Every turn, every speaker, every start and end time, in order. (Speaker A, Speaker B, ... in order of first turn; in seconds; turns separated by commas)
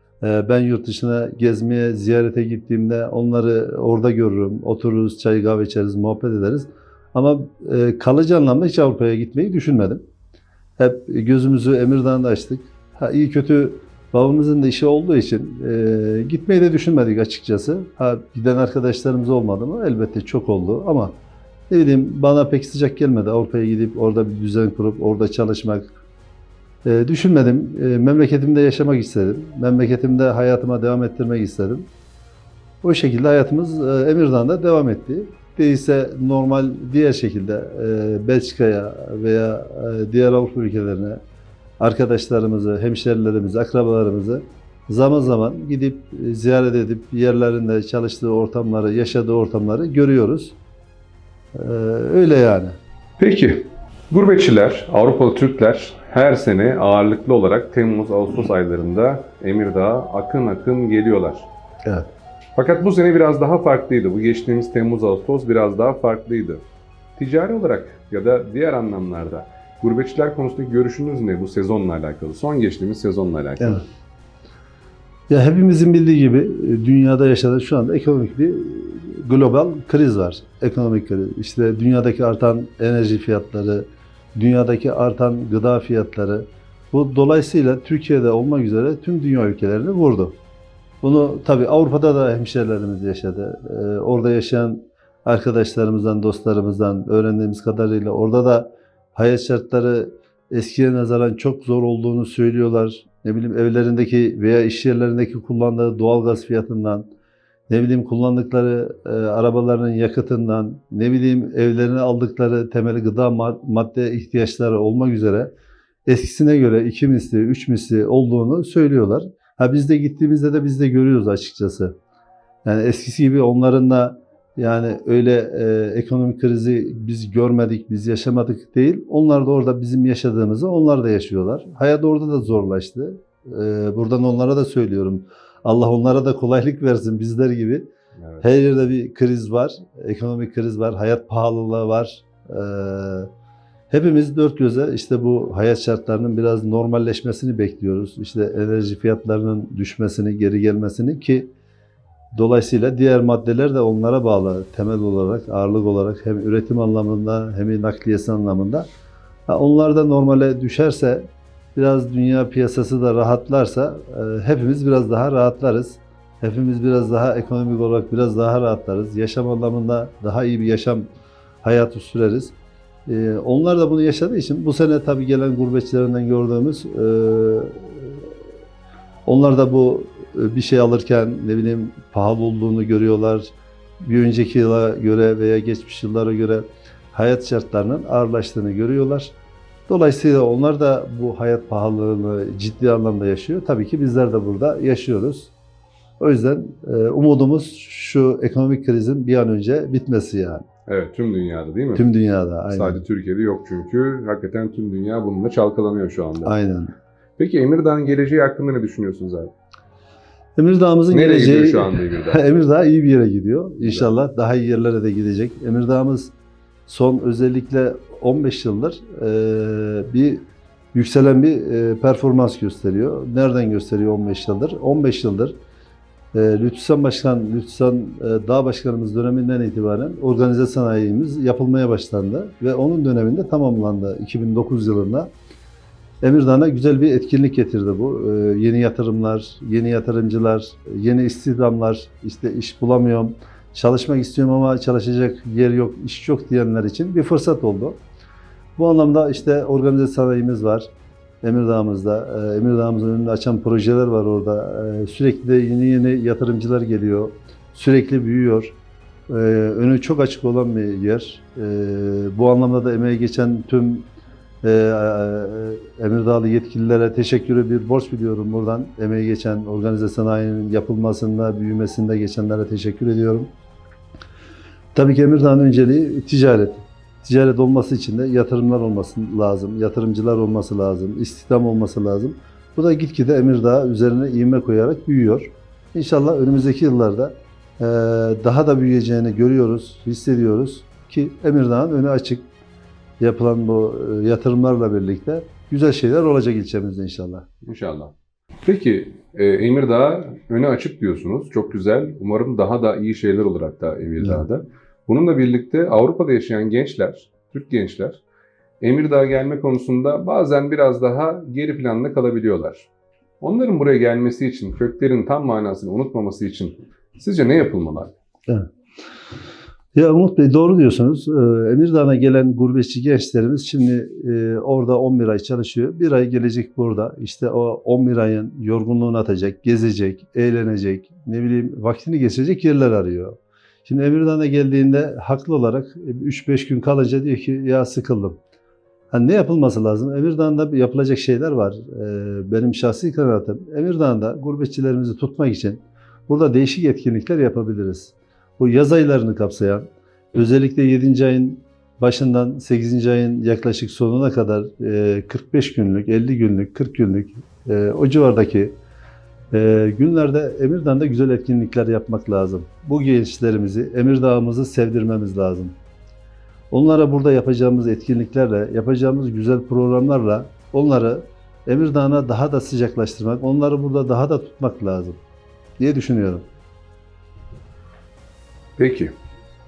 Speaker A: 0.2-10.0, Speaker A: 10.8-21.1, Speaker A: 21.7-25.9, Speaker A: 26.8-31.9, Speaker A: 32.8-41.2, Speaker A: 41.8-50.5, Speaker A: 51.5-52.8, Speaker B: 53.2-61.5, Speaker B: 62.5-66.6, Speaker B: 67.2-73.8, Speaker A: 75.3-90.3, Speaker A: 91.0-107.0, Speaker A: 107.7-115.5, Speaker A: 116.0-121.9, Speaker A: 122.6-137.8, Speaker A: 138.4-143.3, Speaker A: 143.9-151.5, Speaker A: 152.3-158.8, Speaker A: 159.5-171.1, Speaker A: 171.6-172.5, Speaker A: 173.1-178.3, Speaker A: 179.2-189.3, Speaker A: 189.9-195.5, Speaker A: 196.2-200.6, Speaker B: 200.9-202.1, Speaker A: 201.9-203.0, Speaker B: 202.7-206.5, Speaker A: 206.4-206.9, Speaker B: 207.4-209.5, Speaker A: 210.6-216.3, Speaker B: 211.1-212.4, Speaker B: 213.8-214.1, Speaker A: 216.9-225.5, Speaker A: 226.3-235.3, Speaker A: 236.2-248.0, Speaker A: 248.8-250.9, Speaker A: 251.4-258.7, Speaker A: 259.3-264.1, Speaker A: 264.6-273.5, Speaker A: 274.9-292.4, Speaker A: 293.2-297.4, Speaker B: 297.6-298.1, Speaker B: 298.6-308.2, Speaker B: 308.8-312.9, Speaker B: 313.4-318.1, Speaker A: 319.9-338.4, Speaker A: 339.1-358.7, Speaker A: 359.5-365.8, Speaker A: 366.7-375.2, Speaker A: 375.8-376.4, Speaker B: 378.8-379.1